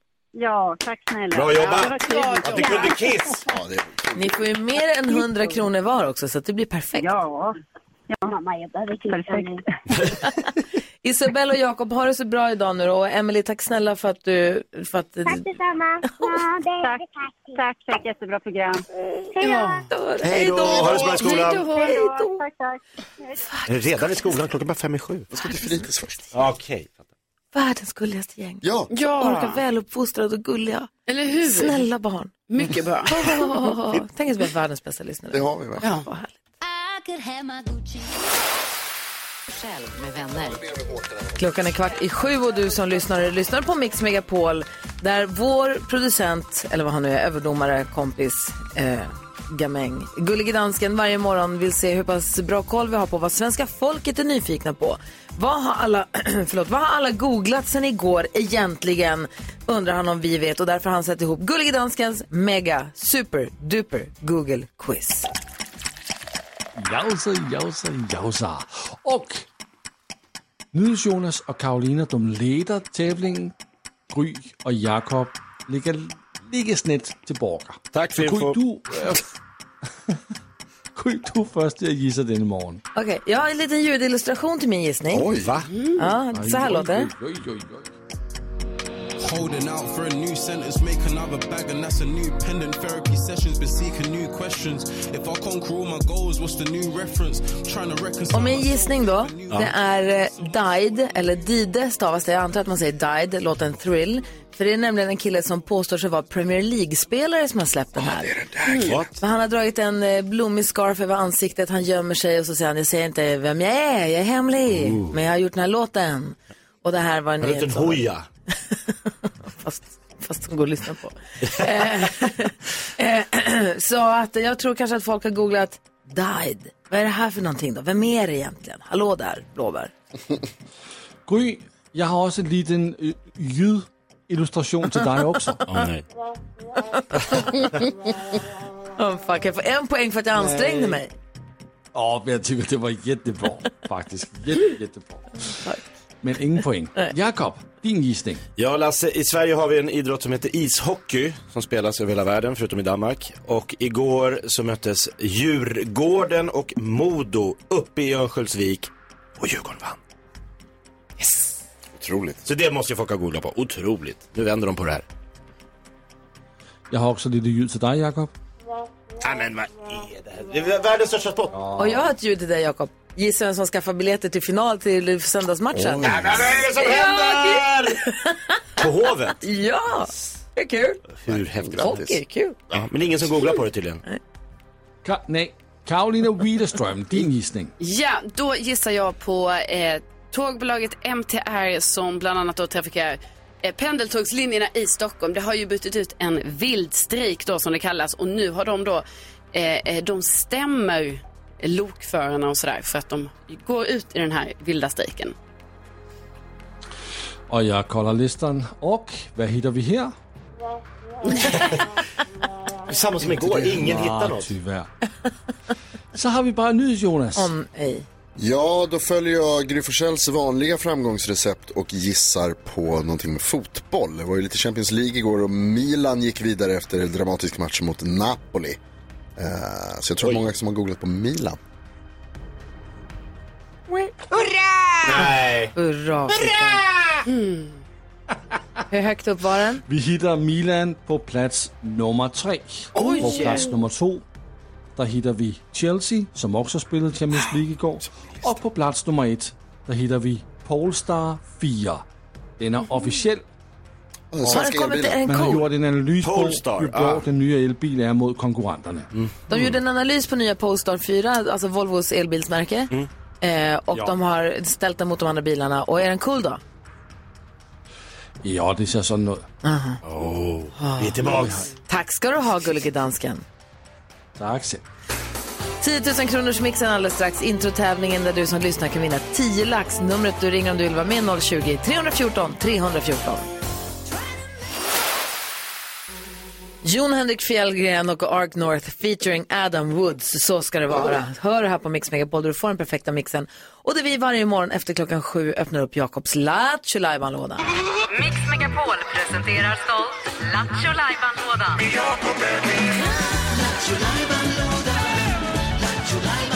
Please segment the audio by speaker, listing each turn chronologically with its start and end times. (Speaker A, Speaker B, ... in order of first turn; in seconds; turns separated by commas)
Speaker A: 0.3-3.1, Speaker B: 1.3-3.5, Speaker C: 1.6-3.0, Speaker D: 3.5-4.4, Speaker E: 4.2-7.2, Speaker A: 7.0-7.6, Speaker A: 8.1-9.9, Speaker F: 8.3-9.6, Speaker E: 11.0-15.5, Speaker F: 15.3-17.6, Speaker A: 16.8-18.8, Speaker F: 19.4-19.7, Speaker C: 19.4-19.9, Speaker E: 19.9-22.4, Speaker B: 20.2-21.7, Speaker A: 20.9-23.4, Speaker C: 21.3-21.9, Speaker E: 23.4-24.3, Speaker B: 23.7-25.3, Speaker D: 25.3-26.2, Speaker E: 25.4-25.9, Speaker B: 26.3-26.9, Speaker E: 27.5-28.6, Speaker D: 28.6-28.9, Speaker C: 28.9-29.6, Speaker E: 29.2-30.9, Speaker C: 31.1-31.9, Speaker E: 31.4-32.3, Speaker C: 32.5-33.4, Speaker E: 33.1-36.4, Speaker D: 35.3-35.9, Speaker G: 37.0-37.8, Speaker G: 39.5-40.6, Speaker D: 40.5-41.4, Speaker E: 41.4-65.3, Speaker H: 66.8-69.5, Speaker H: 70.7-73.5, Speaker H: 74.1-79.3, Speaker B: 77.9-78.6, Speaker H: 80.9-82.8, Speaker E: 83.0-85.3, Speaker D: 85.1-85.6, Speaker B: 85.4-85.7, Speaker C: 85.7-86.0, Speaker E: 86.0-87.1, Speaker H: 86.3-87.9, Speaker I: 89.2-100.4, Speaker E: 98.3-108.5, Speaker C: 108.7-109.0, Speaker B: 108.8-109.2, Speaker E: 109.1-118.0, Speaker B: 114.7-115.2, Speaker B: 117.4-118.3, Speaker E: 118.9-129.9, Speaker B: 121.4-121.8, Speaker H: 131.3-135.7, Speaker B: 135.7-136.1, Speaker E: 136.9-137.7, Speaker E: 139.0-141.1, Speaker H: 140.4-141.0, Speaker H: 141.9-145.3, Speaker H: 146.2-148.4, Speaker B: 148.6-160.0, Speaker D: 162.0-162.4, Speaker B: 162.4-165.0, Speaker H: 166.9-168.3, Speaker B: 169.2-171.6, Speaker H: 171.6-172.0, Speaker E: 171.8-176.2, Speaker D: 175.7-176.7, Speaker B: 176.0-178.0, Speaker E: 176.7-178.8, Speaker B: 178.8-179.4, Speaker E: 179.4-181.0, Speaker B: 181.2-182.1, Speaker D: 181.3-182.8, Speaker E: 181.8-182.6, Speaker B: 182.7-184.0, Speaker H: 185.0-187.7, Speaker C: 187.8-205.3, Speaker H: 207.5-210.1, Speaker B: 211.5-211.8, Speaker B: 212.9-214.5, Speaker D: 213.3-213.7, Speaker H: 213.6-214.9, Speaker H: 216.1-217.5, Speaker E: 217.3-218.1, Speaker D: 218.4-228.8, Speaker D: 229.4-231.6, Speaker B: 235.0-235.7, Speaker E: 235.2-236.8, Speaker C: 237.3-237.8, Speaker E: 238.9-239.8, Speaker H: 239.9-244.2, Speaker B: 243.0-243.7, Speaker H: 245.0-252.0, Speaker H: 252.6-253.4, Speaker D: 254.3-255.2, Speaker H: 254.4-259.1, Speaker E: 254.5-255.7, Speaker B: 256.2-257.3, Speaker B: 259.1-259.8, Speaker E: 259.5-262.9, Speaker E: 263.4-266.6, Speaker H: 268.4-269.5, Speaker E: 269.6-270.0, Speaker B: 270.1-271.7, Speaker E: 270.8-271.3, Speaker H: 271.2-271.7, Speaker E: 271.9-273.4, Speaker H: 274.4-274.8, Speaker E: 275.8-283.5, Speaker E: 286.8-297.6, Speaker G: 298.2-301.8